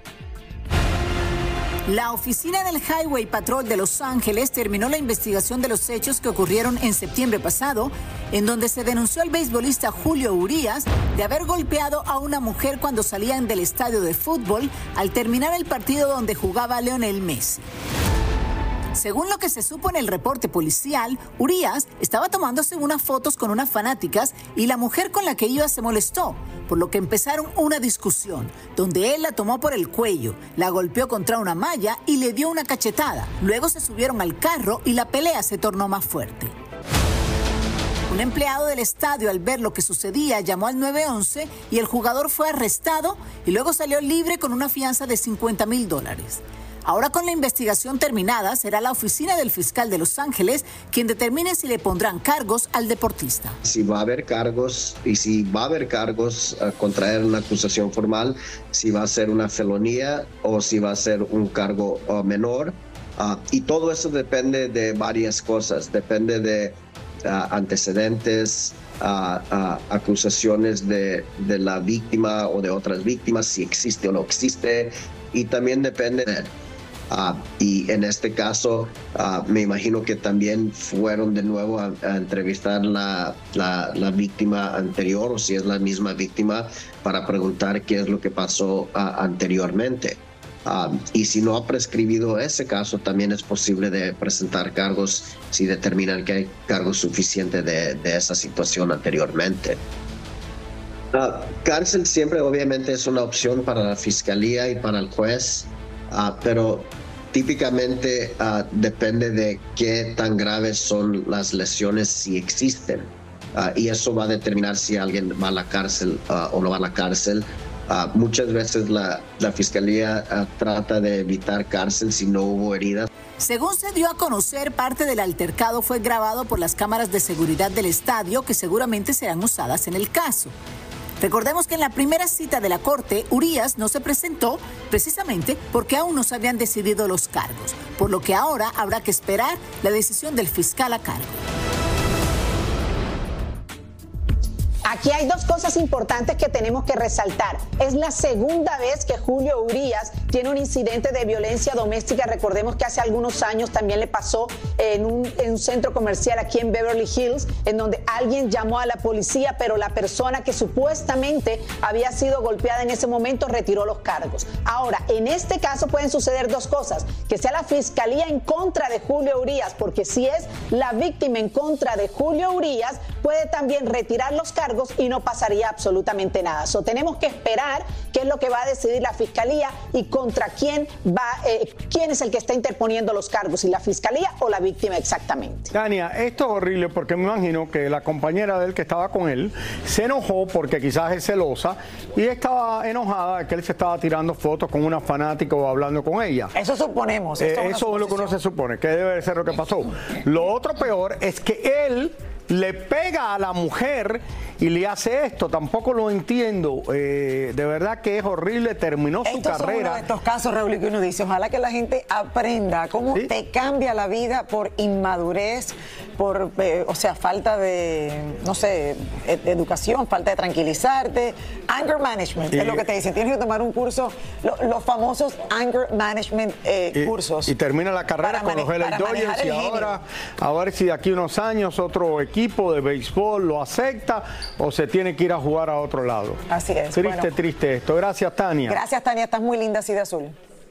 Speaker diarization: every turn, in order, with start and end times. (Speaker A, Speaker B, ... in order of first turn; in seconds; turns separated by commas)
Speaker A: 1.9-17.6, Speaker A: 18.9-36.5, Speaker A: 38.1-53.6, Speaker B: 53.6-76.5, Speaker B: 77.1-99.8, Speaker B: 101.1-123.1, Speaker A: 123.4-130.5, Speaker A: 131.2-141.3, Speaker C: 144.8-185.7, Speaker D: 185.7-196.5, Speaker E: 196.5-198.3, Speaker D: 197.4-210.0, Speaker E: 209.2-227.5, Speaker D: 222.5-222.8, Speaker D: 226.9-238.8, Speaker E: 228.2-230.0, Speaker E: 236.5-237.3, Speaker E: 238.7-240.3